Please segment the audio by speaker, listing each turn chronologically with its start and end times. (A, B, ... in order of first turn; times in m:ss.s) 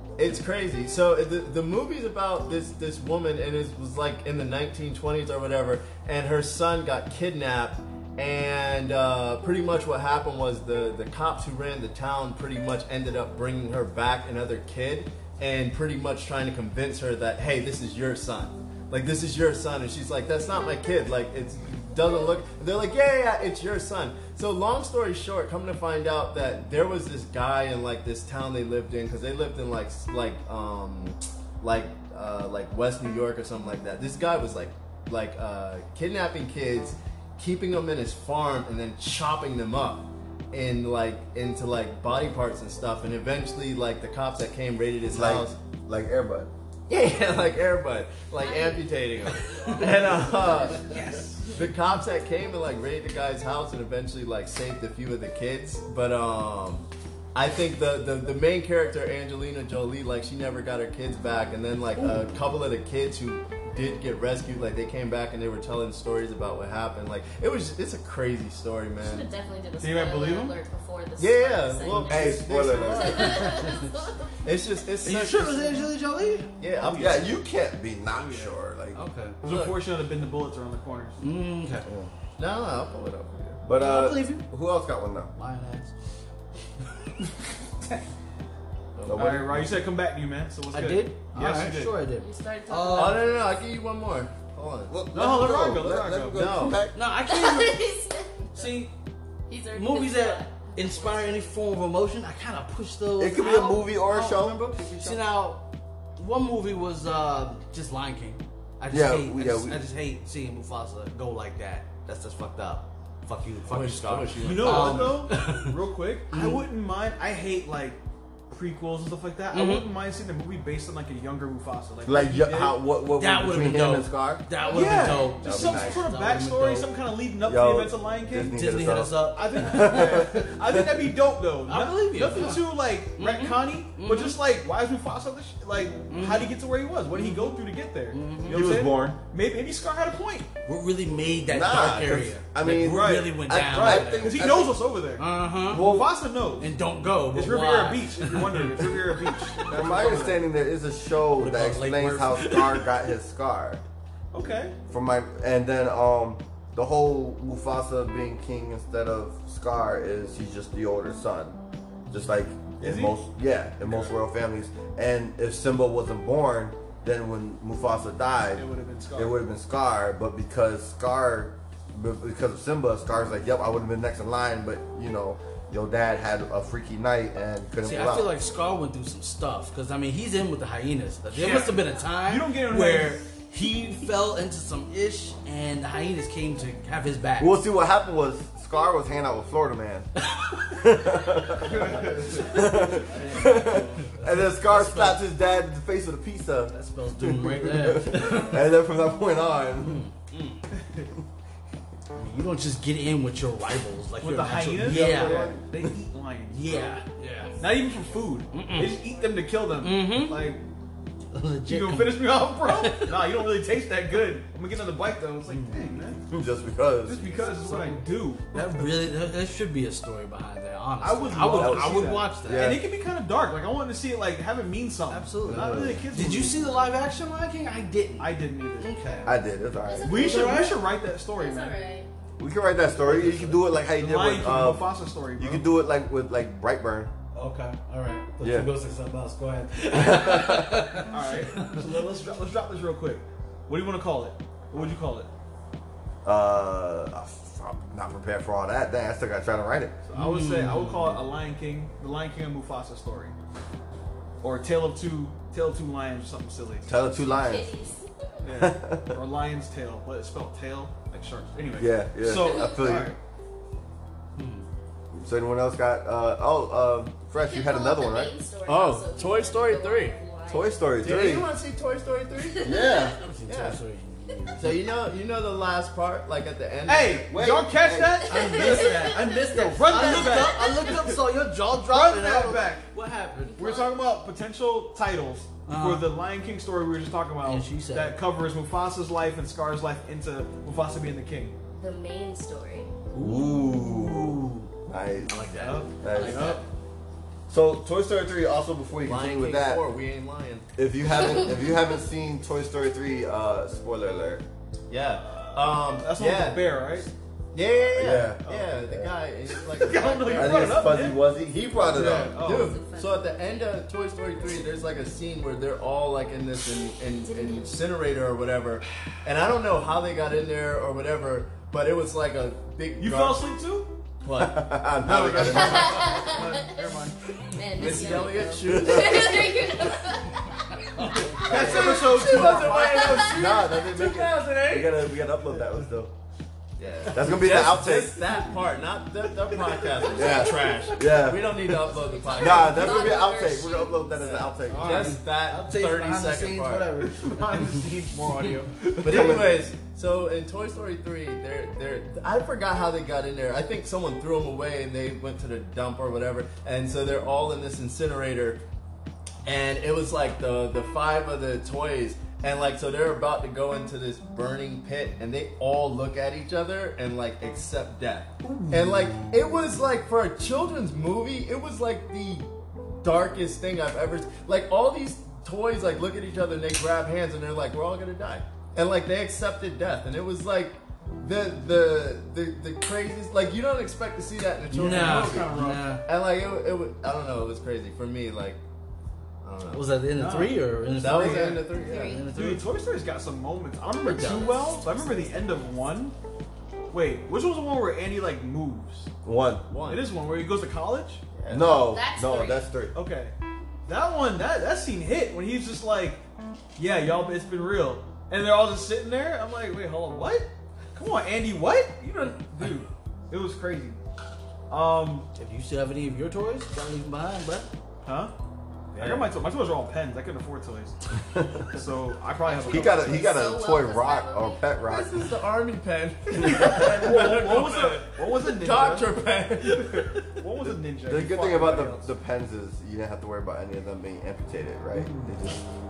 0:00.2-0:45.6 A
0:45.1-0:46.5 B
0:46.9-0:50.9 A
0:48.4-0:49.8 C
0:49.7-0:51.4 D
0:50.9-0:51.2 E
0:51.5-1:09.3 A
1:02.0-1:02.4 E
1:09.0-1:14.4 C
1:09.8-1:10.6 D
1:11.2-1:13.9 A
1:11.9-1:13.5 B
1:14.4-1:16.0 A
1:15.0-1:16.5 E
1:16.6-1:17.3 A
1:16.8-1:17.4 D
1:16.9-1:19.0 B
1:18.1-1:18.6 D
1:18.9-1:19.4 E
1:19.4-1:21.2 D
1:19.4-1:19.8 A
1:21.2-1:21.8 E
1:21.8-1:22.1 B
1:22.4-1:23.6 A
1:23.6-1:25.3 B
1:23.7-1:24.5 E
1:25.4-1:25.9 E
1:29.0-1:29.4 A
1:29.0-1:29.7 B
1:29.1-1:32.0 D
1:30.7-1:33.3 E
1:32.1-1:33.6 C
1:32.9-1:34.9 A
1:34.9-1:37.0 B
1:35.1-1:36.5 D
1:36.3-1:36.8 A
1:36.9-1:37.8 E
1:37.3-1:38.8 C
1:38.5-1:38.9 E
1:39.5-1:41.5 C
1:39.7-1:43.8 E
1:43.2-1:44.7 B
1:43.4-1:45.2 D
1:44.2-1:44.8 A
1:45.0-1:45.6 E
1:46.2-1:55.8 E
1:48.9-1:49.8 B
1:53.7-1:55.2 A
1:54.4-1:58.0 D
1:56.3-1:56.6 E
1:58.5-2:02.8 D
1:59.5-1:59.9 E
2:02.1-2:04.5 B
2:03.2-2:06.9 E
2:04.6-2:06.0 C
2:04.7-2:08.5 D
2:05.4-2:06.0 B
2:07.4-2:10.9 B
2:08.5-2:10.3 E
2:09.4-2:20.5 D
2:11.7-2:14.4 E
2:16.1-2:16.5 E
2:17.1-2:17.6 E
2:18.1-2:18.7 E
2:18.5-2:19.2 B
2:20.7-2:24.4 E
2:21.5-2:24.8 B
2:21.7-2:26.7 D
2:25.2-2:25.9 E
2:25.7-2:26.1 B
2:26.6-2:29.7 E
2:27.3-2:30.4 D
2:29.7-2:33.8 B
2:31.4-2:32.9 E
2:34.3-2:34.8 D
2:34.9-2:41.6 B
2:42.1-2:58.4 B
2:42.8-2:43.2 D
2:43.8-2:44.2 D
2:48.6-2:49.4 D
2:57.8-3:07.6 E
3:01.3-3:03.2 D
3:07.4-3:20.0 B
3:10.3-3:10.6 E
3:11.6-3:12.6 D
3:11.8-3:15.2 E
3:16.7-3:18.8 E
3:19.8-3:20.7 E
3:20.7-3:21.1 D
3:22.2-3:25.5 E
3:24.2-3:27.0 D
3:24.9-3:25.7 B
3:26.5-3:27.6 E
3:27.6-3:30.6 D
3:28.5-3:29.0 E
3:29.8-3:30.4 E
3:31.3-3:33.4 E
3:31.7-3:36.2 D
3:35.5-3:36.1 E
3:36.3-3:37.4 B
3:37.0-3:38.5 D
3:37.6-3:42.8 E
3:41.0-3:46.6 D
3:41.4-3:42.8 B
3:45.1-3:49.3 E
3:45.4-3:46.0 B
3:48.2-3:48.9 D
3:49.2-3:50.3 B
3:49.8-3:50.8 C
3:50.0-3:51.8 D
3:50.1-3:50.8 E
3:51.4-3:52.1 C
3:52.4-3:57.1 B
3:53.0-3:53.7 E
3:54.0-3:55.7 D
3:57.4-4:01.9 E
3:58.4-3:58.7 B
3:59.9-4:01.0 B
4:01.1-4:05.3 D
4:06.2-4:10.0 B
4:10.1-4:13.4 D
4:10.2-4:11.2 E
4:14.4-4:16.9 D
4:16.9-4:17.7 B
4:17.2-4:18.4 C
4:18.4-4:23.2 D
4:18.5-4:19.2 B
4:21.8-4:23.2 B
4:22.4-4:23.0 C
4:24.4-4:24.7 E
4:25.1-4:28.4 B
4:27.4-4:30.9 C
4:28.7-4:30.2 A
4:30.5-4:31.5 B
4:31.0-4:33.8 A
4:32.4-4:33.2 C
4:32.6-4:33.2 B
4:33.2-4:34.9 E
4:34.6-4:37.3 A
4:36.9-4:41.2 D
4:37.3-4:38.3 B
4:38.2-4:40.9 C
4:38.3-4:43.6 E
4:41.9-4:42.8 D
4:43.5-4:43.9 C
4:43.6-4:51.6 D
4:45.7-4:46.1 E
4:47.4-4:48.2 E
4:51.8-4:52.9 C
4:53.1-4:54.7 E
4:53.2-4:55.5 B
4:55.2-4:56.6 E
4:55.6-4:56.6 D
4:56.0-4:56.6 B
4:57.5-4:59.8 B
4:59.0-5:00.7 A
5:00.8-5:04.4 B
5:04.9-5:06.7 A
5:05.3-5:07.1 D
5:07.5-5:11.1 A
5:07.9-5:09.2 B
5:08.4-5:08.8 D
5:09.7-5:12.8 D
5:10.3-5:12.5 B
5:11.8-5:23.4 A
5:12.5-5:13.6 C
5:17.2-5:17.7 C
5:23.0-5:23.9 D
5:24.2-5:24.7 A
5:24.3-5:26.2 B
5:25.0-5:27.2 D
5:25.4-5:33.4 C
5:27.8-5:29.8 A
5:28.9-5:29.1 B
5:31.0-5:33.0 E
5:31.3-5:33.3 D
5:31.4-5:35.3 A
5:31.5-5:31.9 B
5:33.3-5:36.1 B
5:36.8-5:43.3 A
5:37.1-5:38.3 B
5:40.0-5:40.7 E
5:40.2-5:41.7 B
5:41.6-5:44.4 C
5:42.4-5:45.1 B
5:44.2-5:47.1 A
5:44.7-5:45.2 D
5:44.7-5:47.7 E
5:47.1-5:49.5 D
5:49.0-5:58.6 A
5:49.0-5:49.5 B
5:59.4-6:12.5 A
6:08.4-6:09.4 D
6:13.0-6:28.6 A
6:24.7-6:26.0 E
6:24.7-6:25.9 D
6:29.4-6:29.9 A
6:29.7-6:32.6 E
6:30.2-6:31.6 D
6:31.0-6:32.2 A
6:31.8-6:32.3 C
6:32.3-6:36.2 D
6:34.1-6:35.3 C
6:36.9-6:39.1 D
6:39.2-6:39.7 B
6:39.7-6:40.1 A
6:39.8-6:41.2 D
6:41.3-6:41.8 A
6:41.5-6:42.9 B
6:41.7-6:42.7 C
6:42.9-6:43.4 D
6:43.9-6:46.2 D
6:46.8-6:54.0 D
6:54.7-6:55.3 D
6:55.4-6:57.7 E
6:58.0-6:58.3 D
6:58.9-6:59.3 A
6:59.0-7:01.0 D
7:01.3-7:01.7 B
7:01.7-7:03.2 D
7:02.4-7:04.6 C
7:02.6-7:05.2 B
7:04.8-7:10.2 A
7:06.4-7:06.7 B
7:06.4-7:12.1 D
7:11.1-7:15.6 B
7:15.0-7:15.3 A